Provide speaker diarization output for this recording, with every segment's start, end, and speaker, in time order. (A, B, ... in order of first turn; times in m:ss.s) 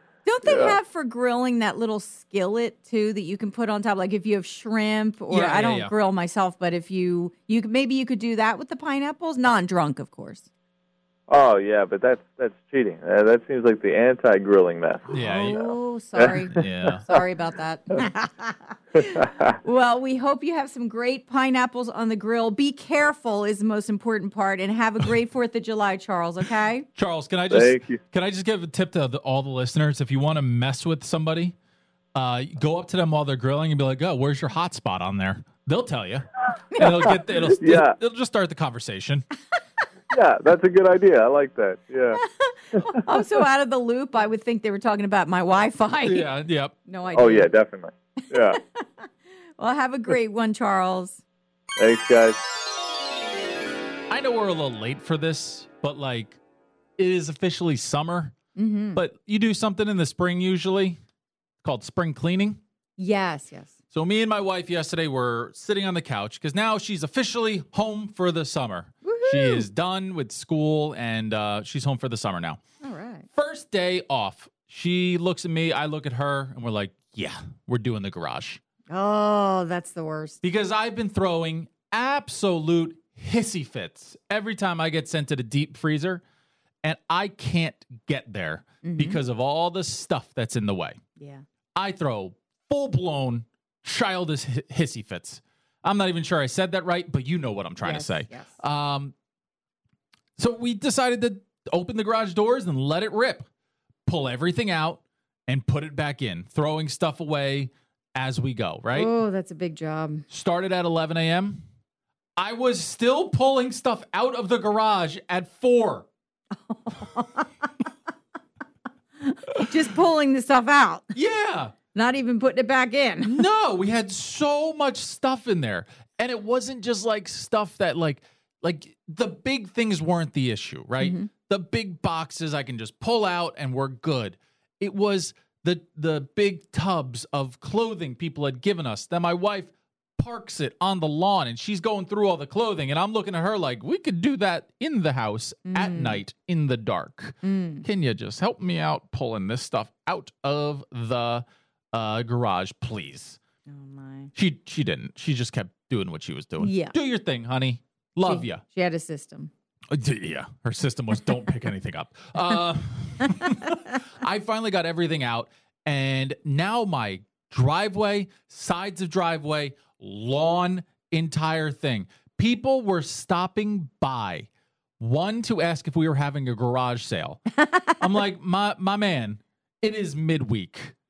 0:00.2-0:10.5 A
0:00.4-0:00.8 B
0:05.3-0:05.9 C
0:11.3-0:16.5 B
0:15.1-0:15.6 C
0:15.2-0:26.9 A
0:16.3-0:17.2 C
0:27.0-0:31.6 C
0:27.5-0:28.0 B
0:32.2-0:39.3 C
0:37.6-0:38.0 B
0:40.1-0:42.2 B
0:42.2-0:46.3 A
0:42.8-0:43.0 B
0:46.0-0:46.8 C
0:46.8-0:47.5 A
0:47.1-0:48.6 B
0:48.2-0:51.2 A
0:51.8-0:52.4 B
0:54.1-0:56.4 C
0:57.0-0:58.4 C
0:58.6-0:59.0 A
0:59.0-1:01.0 C
1:01.6-1:02.6 C
1:03.0-1:03.7 A
1:03.9-1:12.6 C
1:09.0-1:09.7 A
1:12.8-1:13.3 A
1:13.3-1:18.6 C
1:18.9-1:20.4 A
1:20.4-1:26.2 C
1:26.8-1:31.0 C
1:28.8-1:29.2 A
1:31.2-1:31.4 A
1:31.8-1:39.1 C
1:37.8-1:38.5 A
1:40.4-1:43.4 C
1:44.1-1:49.1 C
1:48.9-1:50.3 A
1:50.3-1:51.6 C
1:52.4-1:56.1 C
1:56.7-1:57.5 A
1:59.2-2:01.1 A
2:01.1-2:01.7 C
2:01.9-2:03.4 A
2:03.2-2:33.4 C
2:11.0-2:11.3 A
2:25.7-2:26.2 A
2:27.4-2:27.9 A
2:33.7-2:34.3 A
2:34.4-2:38.6 C
2:36.6-2:36.9 A
2:38.2-2:39.5 A
2:39.9-2:57.4 C
2:57.6-2:58.0 A
2:58.0-3:01.0 C